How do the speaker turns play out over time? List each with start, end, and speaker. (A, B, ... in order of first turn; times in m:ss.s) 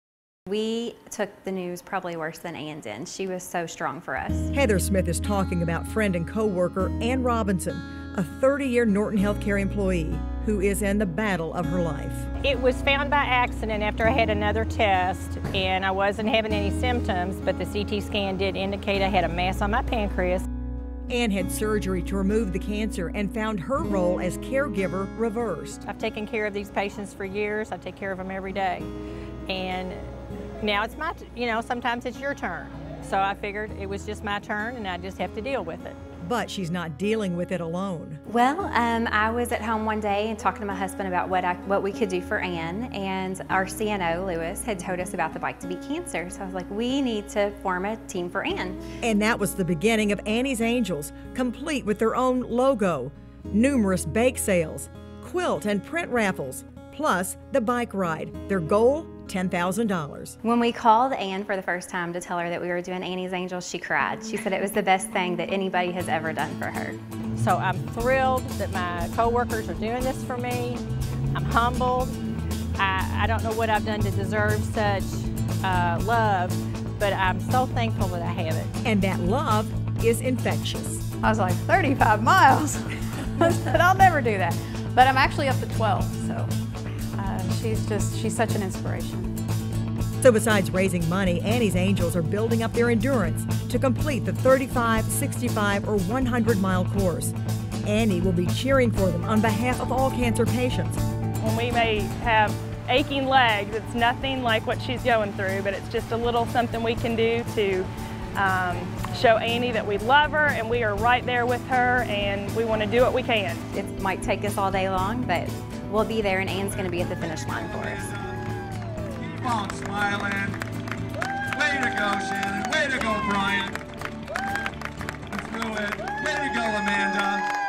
0:00.5-0:04.5 A
0:04.5-0:12.3 B
0:12.4-0:20.4 C
0:21.1-0:25.8 B
0:25.9-0:28.9 C
0:29.5-0:30.0 C
0:30.6-0:36.0 C
0:36.2-0:38.2 B
0:38.3-0:48.8 A
0:49.0-1:00.4 B
1:00.4-1:07.0 A
1:07.4-1:10.8 C
1:11.3-1:12.2 C
1:12.8-1:18.7 C
1:18.8-1:21.0 B
1:21.2-1:26.5 D
1:27.2-1:29.3 D
1:30.2-1:37.3 B
1:37.8-1:41.0 B
1:41.4-1:53.6 E
1:53.7-1:58.1 A
1:57.1-1:58.3 F
1:59.2-2:00.6 F
2:01.5-2:03.8 F
2:05.3-2:07.5 F